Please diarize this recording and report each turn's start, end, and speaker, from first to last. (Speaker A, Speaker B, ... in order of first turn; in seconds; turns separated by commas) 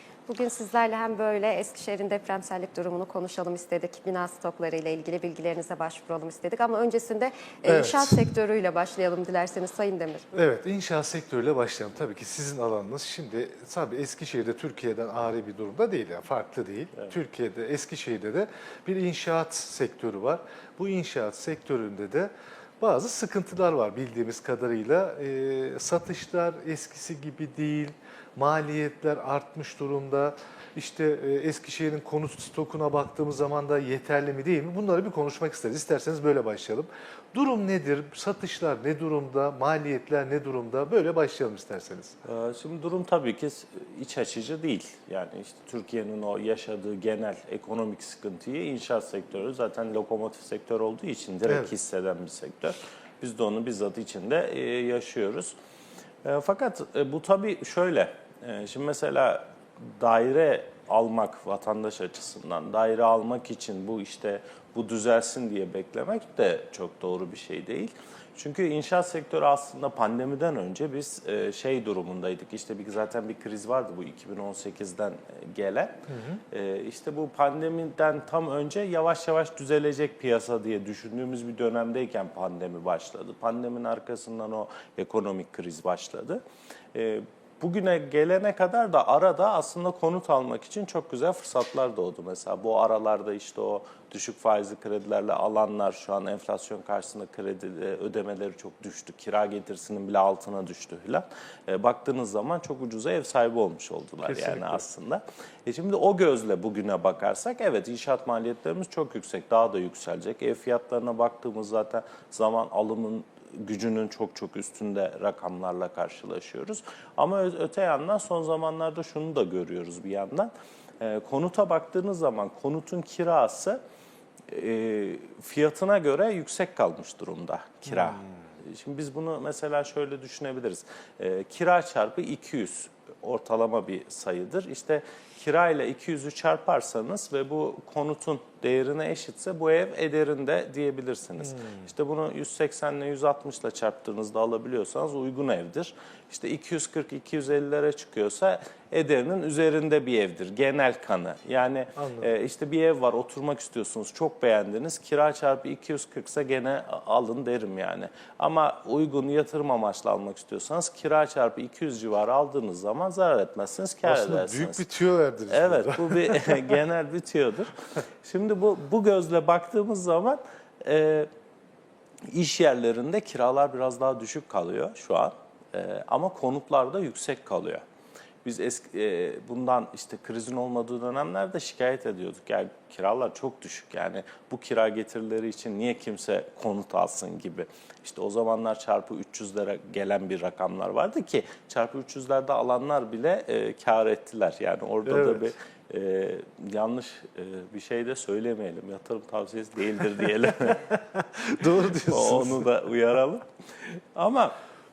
Speaker A: 0.3-10.3, Speaker B: 7.7-8.3, Speaker B: 10.3-42.2, Speaker C: 42.2-55.5, Speaker B: 51.5-51.7, Speaker C: 56.2-86.4, Speaker B: 76.1-76.4, Speaker C: 86.9-123.8, Speaker B: 104.2-104.8, Speaker C: 124.5-164.8, Speaker B: 152.0-152.3, Speaker B: 164.0-166.8, Speaker C: 165.5-171.3, Speaker C: 172.3-177.8, Speaker C: 178.4-200.9, Speaker B: 195.1-195.5, Speaker B: 200.5-202.7, Speaker C: 202.0-204.6